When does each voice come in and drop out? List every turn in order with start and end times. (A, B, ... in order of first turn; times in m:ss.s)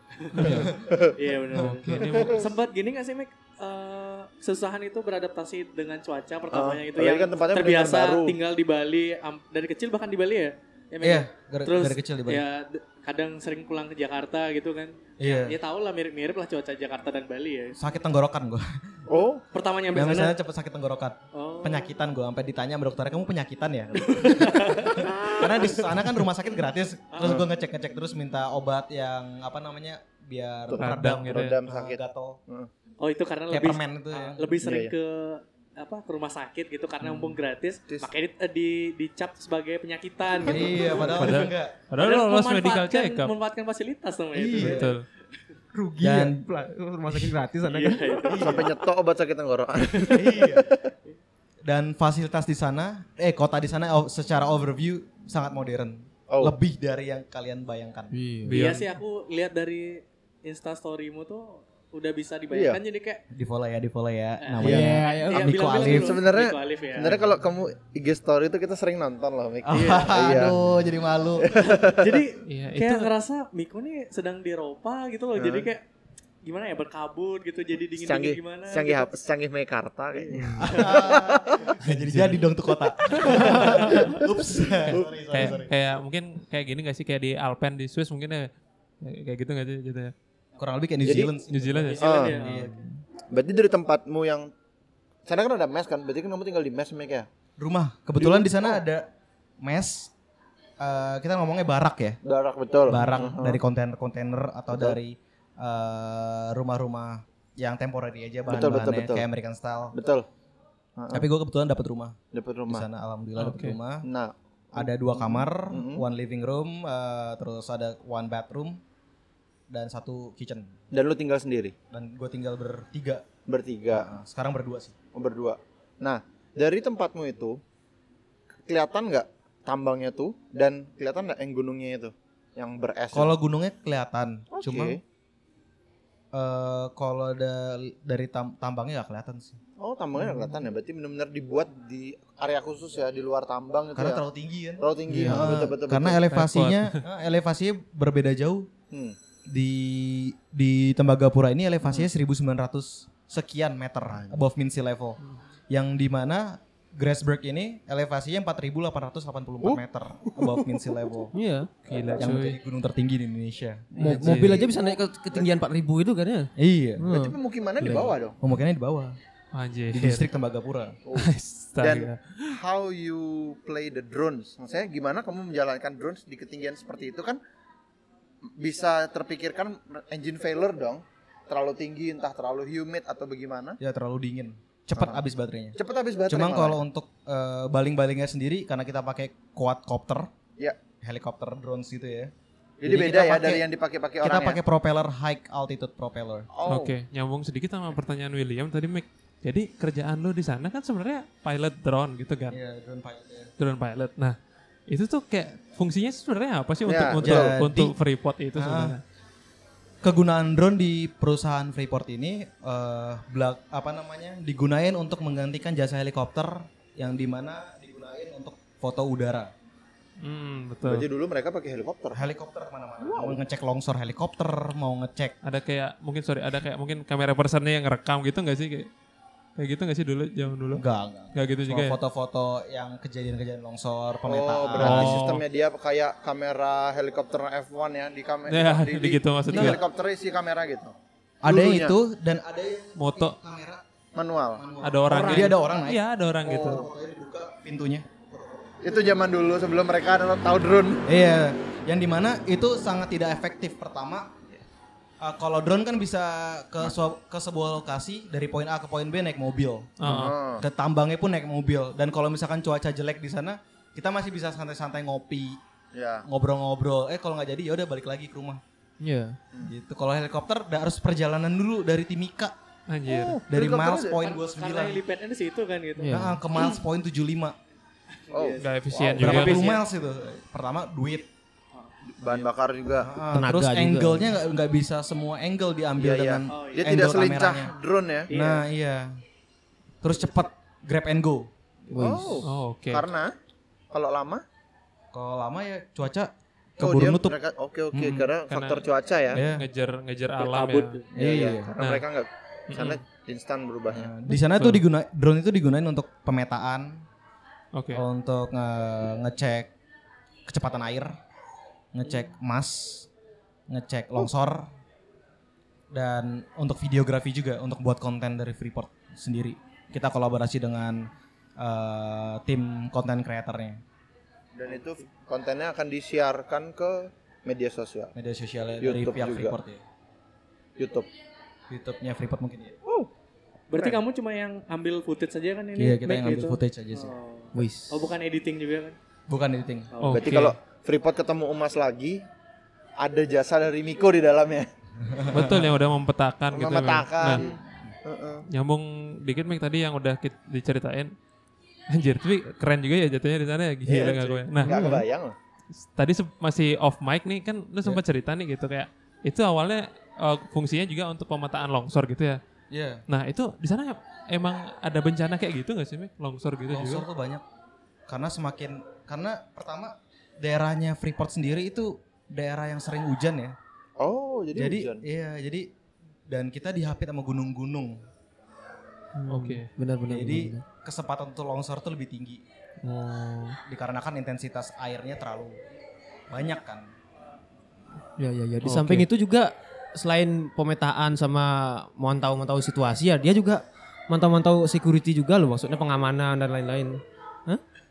0:00.2-0:17.8 A
0:00.4-0:00.7 B
0:00.4-0:01.0 C
0:00.5-0:01.2 D
0:01.6-0:02.5 B
0:02.0-0:02.4 D
0:06.5-0:08.4 D
0:11.0-0:12.4 C
0:15.2-0:15.6 C
0:17.8-0:19.0 C
0:19.1-0:19.4 D
0:19.5-0:20.4 A
0:19.9-0:32.4 C
0:21.3-0:21.9 A
0:24.0-0:25.9 A
0:27.1-0:27.4 A
0:30.7-0:32.7 D
0:30.8-0:31.6 B
0:33.0-0:44.9 A
0:33.5-0:34.6 C
0:34.6-0:34.9 D
0:40.4-0:41.8 C
0:40.8-0:43.3 B
0:44.3-0:44.9 C
0:44.6-0:45.0 B
0:45.7-0:48.3 E
0:46.0-0:46.4 C
0:47.7-0:48.7 A
0:48.3-0:48.7 C
0:48.3-0:50.9 D
0:50.1-0:50.7 C
0:51.6-0:58.1 C
0:56.3-0:56.6 D
0:58.1-0:58.6 E
0:58.4-0:58.9 B
0:58.5-1:03.2 A
1:02.5-1:02.8 D
1:03.3-1:06.2 C
1:04.4-1:07.2 A
1:04.6-1:05.5 E
1:04.6-1:04.9 D
1:05.7-1:10.6 D
1:09.6-1:11.5 C
1:09.7-1:10.3 A
1:11.4-1:12.2 D
1:11.5-1:15.8 A
1:12.4-1:13.1 B
1:15.4-1:15.7 D
1:16.4-1:19.1 A
1:18.0-1:21.7 D
1:20.1-1:21.1 A
1:20.3-1:20.7 E
1:20.6-1:25.7 C
1:21.9-1:22.4 B
1:23.1-1:23.5 B
1:23.2-1:24.1 D
1:23.3-1:23.8 A
1:24.9-1:25.6 D
1:25.3-1:28.5 B
1:29.0-1:30.1 B
1:30.6-1:32.8 C
1:31.0-1:31.3 D
1:31.5-1:32.3 B
1:31.9-1:32.7 A
1:32.0-1:32.4 D
1:32.5-1:32.9 E
1:33.3-1:34.5 D
1:35.2-1:37.3 D
1:37.6-1:39.1 C
1:38.2-1:38.8 D
1:39.6-1:40.1 C
1:40.8-1:42.2 C
1:42.2-1:43.6 D
1:42.8-1:49.9 C
1:42.9-1:43.3 B
1:44.7-1:45.0 D
1:48.5-1:49.2 D
1:49.9-1:50.2 D
1:51.0-1:51.2 D
1:51.1-1:52.2 C
1:52.3-1:52.8 D
1:52.7-1:54.1 C
1:53.4-1:53.8 B
1:54.0-1:56.0 D
1:54.7-1:58.8 C
1:59.7-2:00.8 C
2:00.9-2:01.7 D
2:01.9-2:03.2 C
2:03.5-2:04.1 D
2:03.9-2:04.9 C
2:05.1-2:07.6 D
2:08.6-2:13.3 D
2:13.1-2:15.0 C
2:14.5-2:15.0 D
2:16.3-2:19.6 C
2:19.8-2:24.2 D
2:23.9-2:28.7 C
2:24.8-2:26.2 D
2:25.1-2:25.6 E
2:26.3-2:27.0 B
2:28.9-2:29.2 D
2:29.5-2:35.2 C
2:35.7-2:41.3 C
2:40.4-2:40.8 D
2:41.3-2:42.2 E
2:41.9-2:42.6 B
2:42.2-2:44.7 C
2:43.9-2:48.1 E
2:44.0-2:44.6 B
2:44.0-2:45.5 D
2:46.6-2:47.1 C
2:47.1-2:48.4 D
2:48.4-2:49.2 C
2:49.5-2:50.3 B
2:49.9-2:51.0 C
2:51.0-2:57.4 D
2:51.1-2:52.6 B
2:58.4-3:03.8 D
3:03.8-3:05.8 C
3:04.9-3:05.2 D
3:05.8-3:06.8 D
3:06.3-3:10.3 C
3:11.0-3:12.3 C
3:12.8-3:14.6 D
3:12.8-3:13.6 C
3:14.2-3:16.5 C
3:16.5-3:16.9 D
3:16.6-3:22.6 B
3:22.5-3:23.5 C
3:23.6-3:24.4 B
3:24.9-3:29.0 B
3:26.8-3:27.6 D
3:27.2-3:27.9 C
3:28.5-3:29.0 C
3:30.0-3:39.5 C
3:40.2-3:41.1 B
3:40.8-3:42.2 D
3:42.1-3:45.3 C
3:43.0-3:43.4 D
3:45.4-3:48.9 B
3:49.6-3:52.0 B
3:50.7-3:55.2 C
3:54.3-4:02.0 D
3:54.8-3:55.4 B
3:58.5-3:59.8 B
3:59.5-3:59.8 C
4:01.4-4:03.8 C
4:03.0-4:03.4 B
4:04.1-4:05.5 D
4:04.6-4:06.0 C
4:04.8-4:06.9 B
4:06.4-4:06.9 D
4:06.6-4:08.8 C
4:08.8-4:11.0 D
4:11.0-4:14.3 C
4:15.2-4:20.0 C
4:20.0-4:20.4 B
4:20.0-4:20.6 D
4:20.6-4:25.6 C
4:25.9-4:26.2 D
4:26.2-4:28.6 C
4:29.0-4:29.4 E
4:29.6-4:32.5 C
4:32.9-4:33.4 B
4:33.1-4:34.3 D
4:33.5-4:35.0 C
4:34.2-4:36.8 A
4:36.0-4:36.4 E
4:36.1-4:37.6 C
4:38.2-4:39.8 A
4:38.3-4:39.7 D
4:38.6-4:39.7 B
4:39.2-4:41.3 C
4:41.7-4:42.5 A
4:42.2-4:43.1 D
4:43.0-4:47.7 C
4:43.3-4:44.3 E
4:46.0-4:48.3 D
4:46.5-4:47.1 A
4:48.3-4:48.6 A
4:48.3-4:49.2 C
4:50.0-4:51.5 C
4:51.9-4:53.4 D
4:51.9-4:52.4 E
4:52.4-4:53.0 B
4:53.9-4:54.4 D
4:55.1-4:57.4 C
4:56.8-4:59.4 D
4:57.9-4:58.3 C
4:58.5-5:01.0 B
4:59.3-4:59.7 C
5:00.4-5:01.1 A
5:01.1-5:04.1 D
5:01.1-5:01.7 C
5:01.8-5:02.0 B
5:02.7-5:03.0 B
5:03.9-5:07.0 C
5:04.3-5:04.8 B
5:07.7-5:08.0 B
5:07.9-5:09.7 C
5:10.5-5:11.2 C
5:11.9-5:13.1 C
5:13.7-5:14.7 C
5:15.9-5:23.8 C
5:24.5-5:28.1 D
5:28.1-5:29.8 C
5:28.8-5:29.6 D
5:30.8-5:31.1 D
5:31.7-5:32.8 C
5:33.7-5:39.0 A
5:35.8-5:37.1 C
5:37.5-5:38.0 E
5:39.3-5:39.9 C
5:39.9-5:40.3 A
5:40.0-5:40.6 B
5:40.1-5:42.2 D
5:43.0-5:44.7 D
5:45.0-5:45.8 C
5:45.3-5:47.4 B
5:46.5-5:48.4 D
5:48.5-5:51.1 B
5:51.9-5:54.8 B
5:53.9-5:55.4 D
5:54.6-5:55.0 E
5:55.8-6:02.4 B
6:02.7-6:03.0 C
6:03.1-6:07.0 B
6:06.7-6:07.4 C
6:08.1-6:13.6 C
6:14.0-6:15.0 D
6:14.5-6:15.7 C
6:16.3-6:18.0 C
6:19.1-6:20.6 E
6:19.3-6:19.7 B
6:20.1-6:22.4 C
6:22.8-6:23.6 E
6:23.6-6:25.6 C
6:26.3-6:26.9 C
6:28.2-6:37.6 E
6:28.6-6:29.1 B